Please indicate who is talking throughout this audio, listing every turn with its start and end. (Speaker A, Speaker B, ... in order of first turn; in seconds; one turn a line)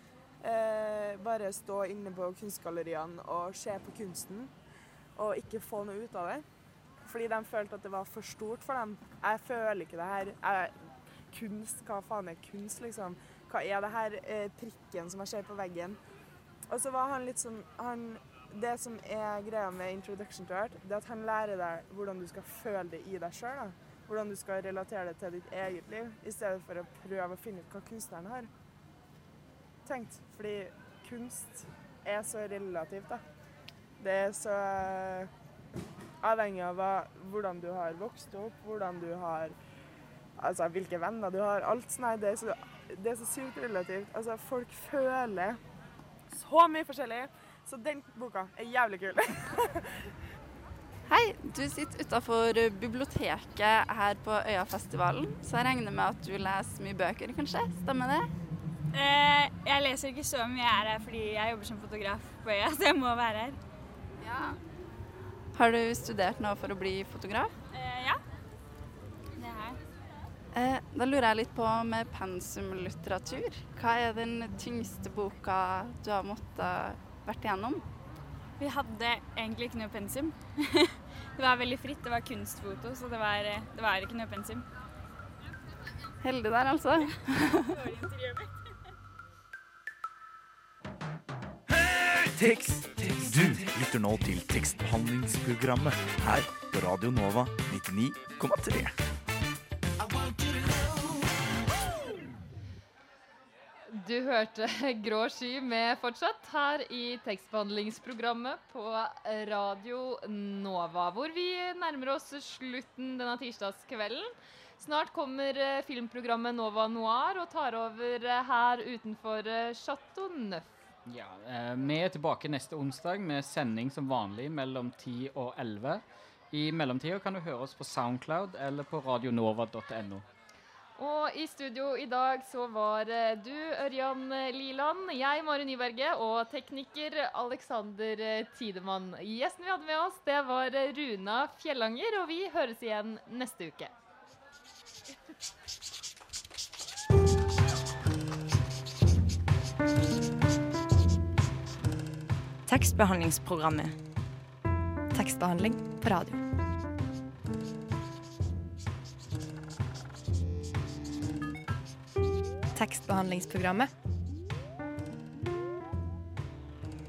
Speaker A: 0.4-4.5
Speaker A: 5.2-6.4
Speaker A: 7.0-16.0
Speaker A: 16.7-28.5
Speaker A: 29.9-33.2
Speaker A: 34.0-35.3
Speaker A: 36.2-39.5
Speaker A: 40.4-45.6
Speaker A: 46.3-49.9
Speaker B: 51.1-58.3
Speaker C: 58.9-63.6
Speaker B: 64.2-64.6
Speaker B: 65.5-67.5
Speaker C: 67.7-68.2
Speaker C: 69.4-69.8
Speaker B: 70.5-77.8
Speaker C: 78.6-80.8
Speaker C: 81.4-84.6
Speaker B: 86.2-87.7
Speaker C: 87.7-88.4
Speaker D: 92.3-98.9
Speaker E: 103.9-120.7
Speaker F: 121.0-130.2
Speaker E: 131.0-143.9
Speaker G: 152.7-154.0
Speaker G: 155.1-156.4
Speaker G: 162.7-163.9